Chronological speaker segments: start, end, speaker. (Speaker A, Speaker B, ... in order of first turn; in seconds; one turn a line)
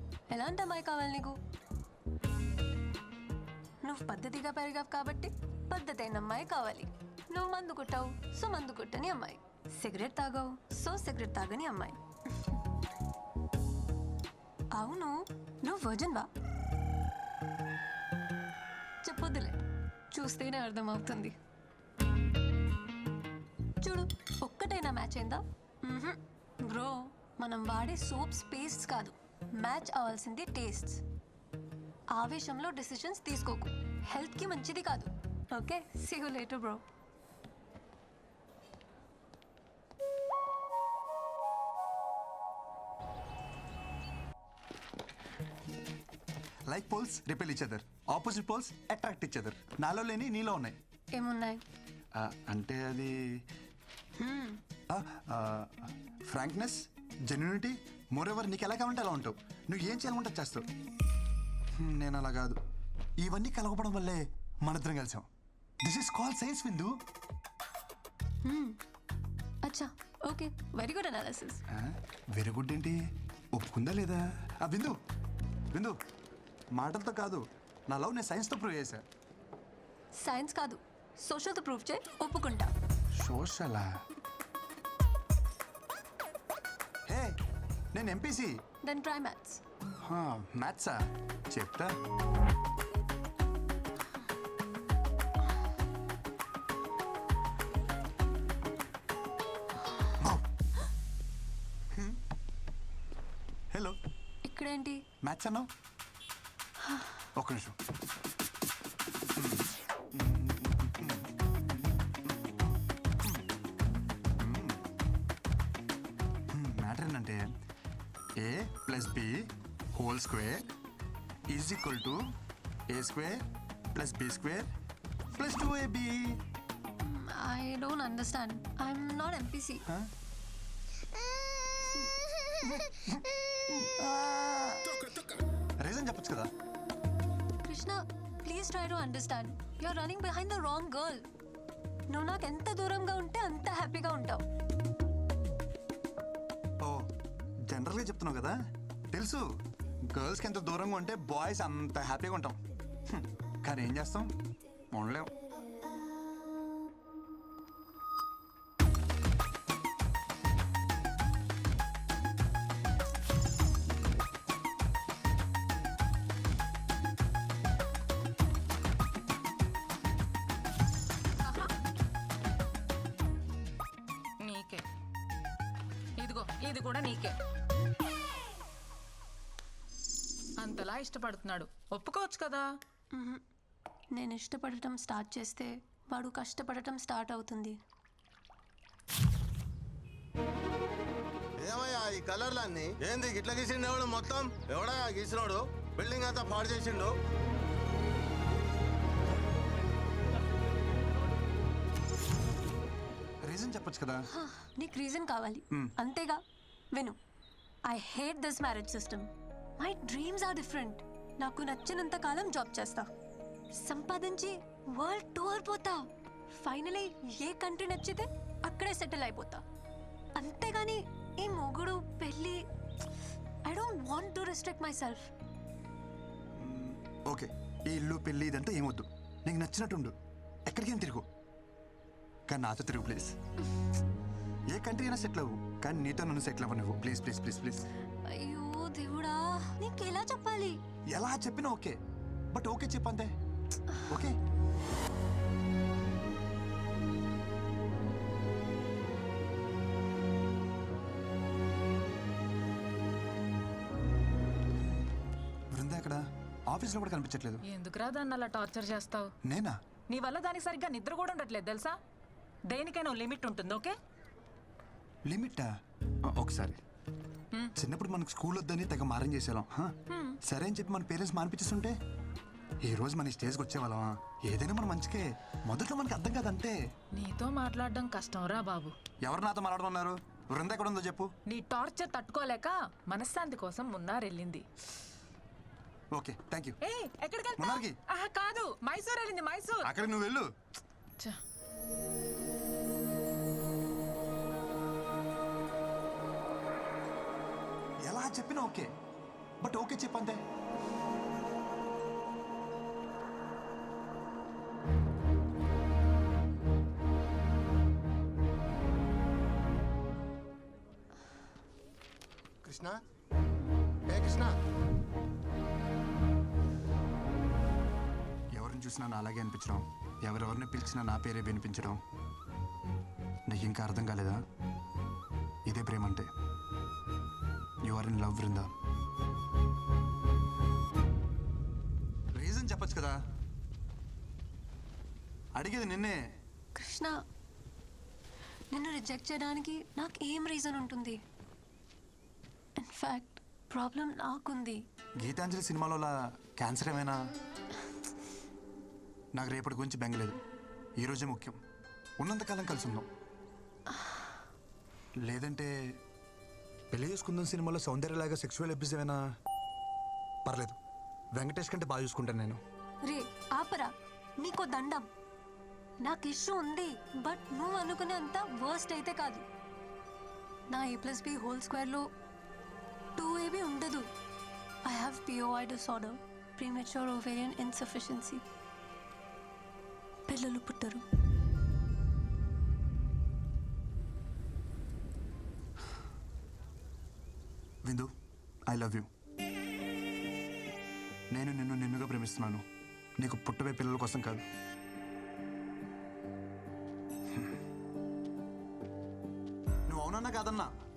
Speaker A: 0.3-1.3
Speaker A: 3.8-12.6
Speaker A: 14.7-16.3
Speaker A: 19.0-19.6
Speaker A: 20.1-21.3
Speaker A: 23.8-31.0
Speaker A: 32.1-36.8
Speaker B: 46.7-50.8
Speaker A: 51.1-51.6
Speaker B: 52.1-53.2
Speaker A: 54.2-54.6
Speaker B: 54.9-60.6
Speaker B: 61.8-62.6
Speaker B: 63.2-65.2
Speaker B: 65.8-67.0
Speaker A: 68.4-68.8
Speaker A: 69.6-71.6
Speaker B: 71.7-73.0
Speaker B: 73.5-75.0
Speaker B: 76.7-79.0
Speaker A: 80.2-82.7
Speaker B: 83.2-83.9
Speaker B: 87.1-87.3
Speaker B: 87.9-88.6
Speaker A: 88.8-89.6
Speaker B: 90.0-92.0
Speaker B: 101.9-102.2
Speaker A: 104.5-105.0
Speaker B: 105.2-105.7
Speaker A: 106.8-107.3
Speaker B: 107.3-107.8
Speaker B: 109.3-111.3
Speaker B: 112.2-112.5
Speaker B: 114.4-114.8
Speaker B: 116.5-117.5
Speaker B: 118.4-120.6
Speaker B: 121.5-122.3
Speaker B: 122.9-124.7
Speaker B: 125.3-126.4
Speaker A: 127.0-129.8
Speaker B: 132.6-133.1
Speaker B: 133.8-136.5
Speaker A: 137.7-141.2
Speaker A: 142.1-144.4
Speaker B: 146.8-147.1
Speaker B: 147.7-148.5
Speaker B: 149.1-149.4
Speaker B: 150.1-152.6
Speaker B: 153.1-154.3
Speaker B: 154.9-155.3
Speaker C: 171.4-171.7
Speaker C: 174.4-174.8
Speaker C: 176.2-177.3
Speaker C: 180.6-182.7
Speaker A: 183.1-183.4
Speaker A: 184.1-187.8
Speaker D: 191.6-197.1
Speaker B: 203.4-204.3
Speaker A: 204.3-206.4
Speaker A: 207.9-213.1
Speaker A: 213.8-219.6
Speaker A: 220.4-222.6
Speaker A: 223.6-225.3
Speaker B: 226.6-230.1
Speaker B: 230.7-231.2
Speaker B: 232.5-233.3
Speaker B: 234.7-237.8
Speaker A: 238.3-240.8
Speaker B: 241.1-242.0
Speaker B: 242.5-243.3
Speaker B: 244.1-244.4
Speaker B: 255.7-257.6
Speaker C: 257.7-259.3
Speaker B: 259.4-259.8
Speaker C: 260.1-262.0
Speaker C: 262.7-263.9
Speaker B: 265.3-265.7
Speaker B: 266.3-266.8
Speaker B: 267.8-271.9
Speaker C: 270.1-270.4
Speaker B: 272.8-276.8
Speaker C: 277.1-278.9
Speaker B: 279.2-281.3
Speaker C: 281.5-284.6
Speaker B: 286.1-286.8
Speaker C: 286.8-289.8
Speaker B: 287.6-287.9
Speaker B: 289.8-290.5
Speaker B: 298.0-298.9
Speaker B: 299.6-300.4
Speaker D: 312.6-313.0
Speaker D: 314.1-314.6
Speaker B: 318.5-322.0
Speaker B: 323.5-324.4
Speaker B: 325.6-326.3
Speaker B: 327.8-328.7
Speaker B: 332.3-333.2
Speaker B: 335.5-336.2
Speaker A: 336.8-337.1
Speaker A: 338.7-341.2
Speaker A: 342.8-344.8
Speaker B: 345.2-347.2
Speaker B: 349.3-350.4
Speaker B: 351.0-351.6
Speaker B: 352.2-353.1
Speaker B: 355.2-355.7
Speaker B: 356.9-359.2
Speaker B: 360.4-360.8
Speaker B: 361.3-362.6
Speaker A: 363.1-365.1
Speaker A: 366.0-369.4
Speaker A: 370.7-372.0
Speaker A: 373.1-374.1
Speaker A: 374.8-378.4
Speaker A: 380.3-381.0
Speaker B: 387.8-388.1
Speaker B: 388.7-389.1
Speaker B: 391.3-392.6
Speaker B: 393.2-394.4
Speaker B: 399.9-400.7